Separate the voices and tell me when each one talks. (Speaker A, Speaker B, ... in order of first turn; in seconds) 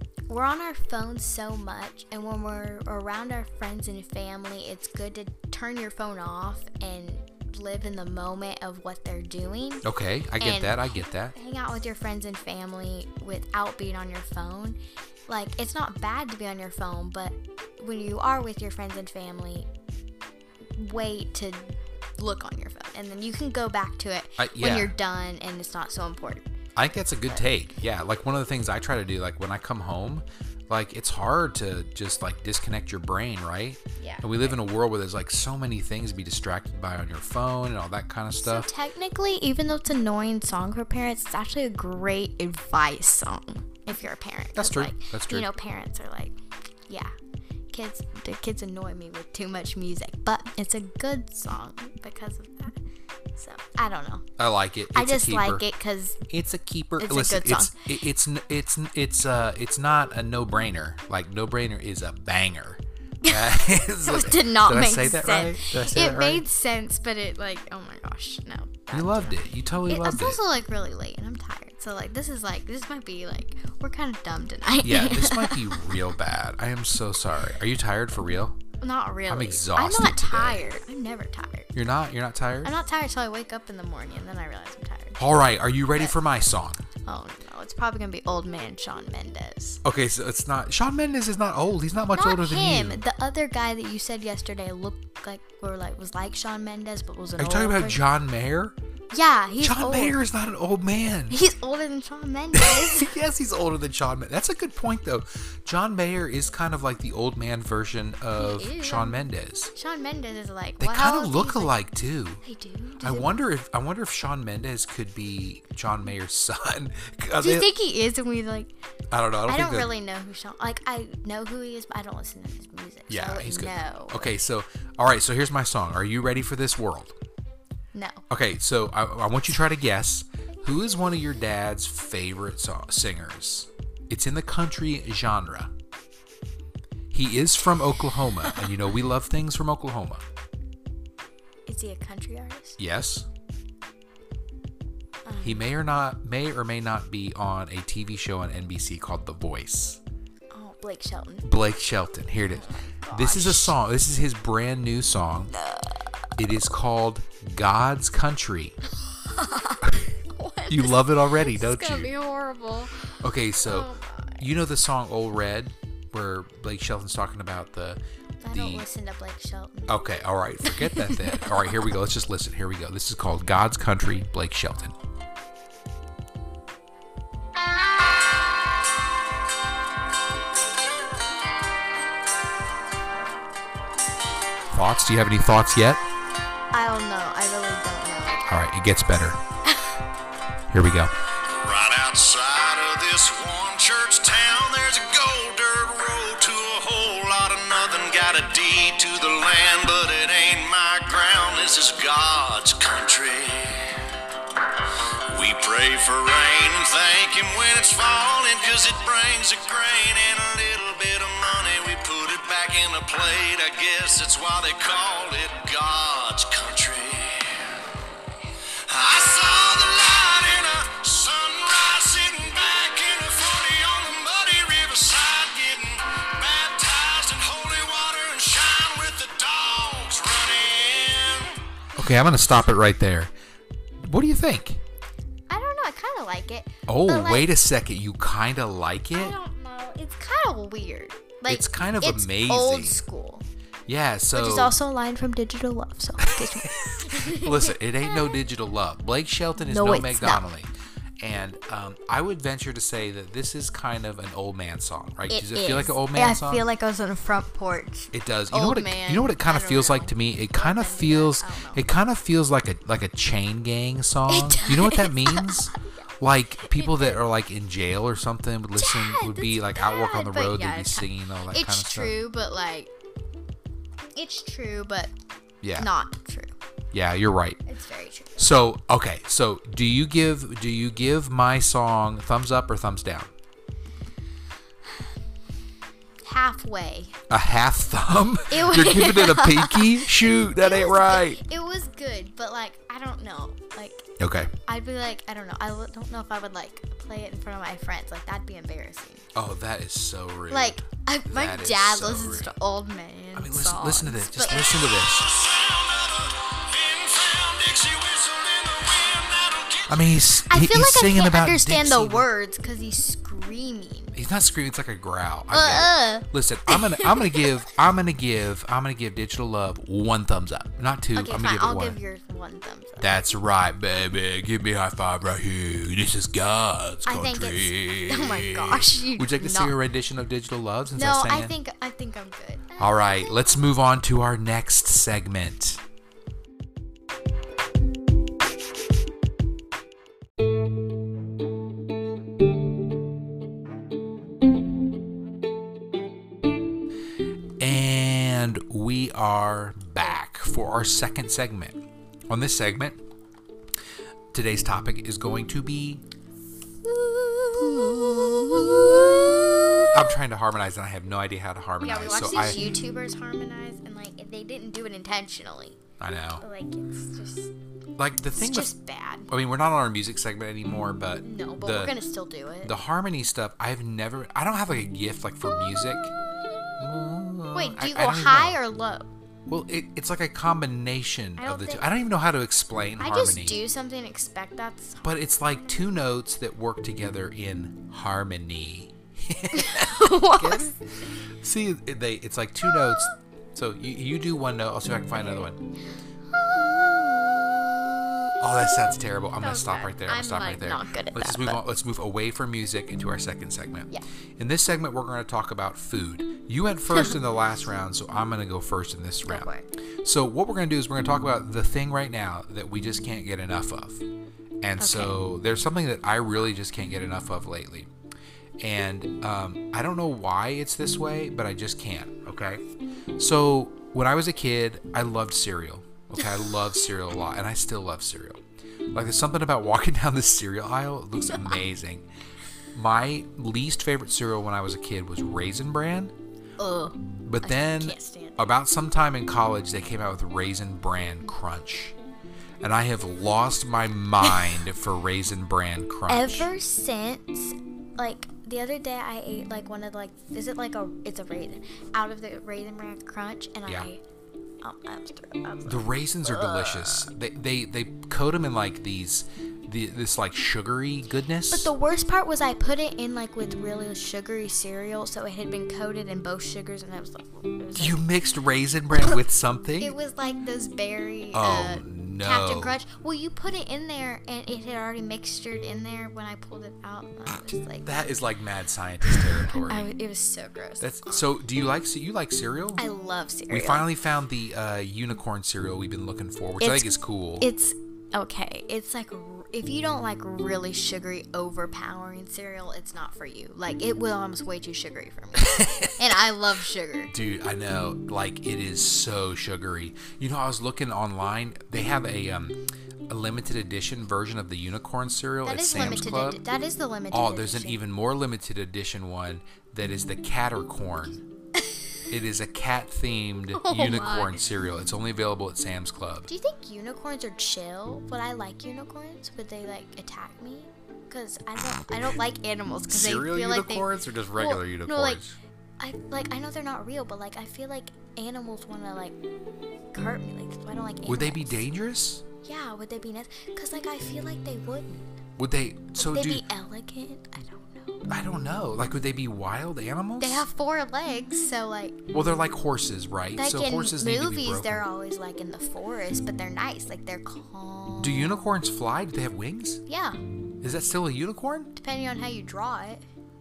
Speaker A: 0.3-9.8, 10.4-19.7, 20.7-26.5, 34.0-34.6, 38.4-46.4, 46.9-47.1, 47.7-52.8, 53.4-54.2, 54.9-56.2, 57.0-57.8, 63.2-76.0, 78.8-81.7, 82.6-85.2, 87.0-89.8, 92.1-98.0, 99.1-100.2, 101.3-103.1, 108.3-111.8, 112.4-113.3, 117.4-118.7, 119.5-124.3, 127.9-128.2, 141.7-142.8, 145.2-145.7, 150.5-151.5, 152.4-153.8, 155.5-156.0, 159.0-163.1, 163.6-164.5, 168.4-170.0, 170.6-171.9, 186.7-188.5, 189.7-189.9, 235.5-237.5, 239.1-243.4, 244.3-247.8, 249.6-250.4, 255.3-261.9, 264.3-266.0, 266.6-267.2, 268.8-272.9, 274.1-275.1, 275.8-276.5, 277.6-278.5, 286.2-287.2, 288.5-294.1, 294.7-299.3, 300.5-304.7, 310.5-314.1, 315.5-317.5, 321.1-323.2, 327.0-329.7, 330.9-333.5, 356.8-360.0, 361.8-365.8, 366.4-367.5, 368.3-369.3, 371.2-372.7, 377.5-379.1, 381.4-381.9, 383.0-385.0, 389.5-390.8, 392.7-393.1, 395.1-395.5, 396.3-398.7, 399.4-401.6, 409.2-409.7, 414.8-415.2, 431.3-431.6, 436.6-438.5, 444.2-444.5, 446.1-454.0, 454.6-457.1, 461.5-468.0, 469.8-477.9, 479.5-481.2, 482.8-483.9, 486.6-497.1, 505.4-507.8, 513.5-514.4, 516.3-525.2, 525.8-529.2, 529.9-531.6, 532.4-535.1, 536.0-538.0, 540.2-542.0, 543.4-548.4, 549.9-550.2, 551.8-553.0
Speaker B: 9.8-11.3, 24.4-24.9, 26.8-38.7, 44.5-45.5, 54.4-55.6, 56.3-66.4, 68.9-70.4, 74.8-78.6, 79.3-80.7, 81.7-82.7, 85.2-86.8, 89.8-93.0, 97.4-98.8, 99.6-101.4, 102.5-109.7, 110.8-112.4, 113.0-117.7, 119.1-119.9, 123.1-127.1, 128.3-135.7, 137.1-140.2, 142.8-143.3, 145.4-150.0, 151.4-155.5, 156.3-158.8, 160.7-162.1, 163.2-168.8, 169.9-174.9, 184.7-186.0, 188.5-189.4, 190.7-191.1, 231.9-233.3, 234.0-234.8, 236.9-239.3, 241.5-243.0, 243.9-244.7, 246.2-256.6, 258.1-272.2, 275.6-275.9, 276.9-277.6, 278.4-283.3, 287.3-291.4, 294.2-294.5, 299.3-302.5, 303.3-305.3, 309.9-312.3, 314.1-322.0, 323.0-331.5, 332.8-335.8, 347.6-353.0, 354.3-356.0, 357.6-359.3, 359.9-362.7, 366.0-366.4, 368.0-368.7, 369.3-371.9, 372.6-376.1, 376.8-378.6, 379.5-383.6, 385.0-390.7, 391.4-395.6, 398.4-409.5, 410.0-414.0, 414.6-417.9, 418.6-422.6, 423.2-428.4, 428.9-432.1, 432.7-436.1, 437.2-441.9, 442.6-446.5, 455.6-461.7, 467.8-469.9, 471.3-472.8, 477.8-479.9, 480.8-482.9, 483.5-487.5, 495.4-496.0, 497.1-506.4, 507.1-511.2, 512.1-516.3, 522.9-525.4, 531.0-532.2, 535.4-536.5, 538.1-540.5, 542.1-544.8, 548.0-549.8, 550.6-551.7
Speaker C: 191.6-203.9, 205.3-217.8, 218.9-231.5, 304.7-310.0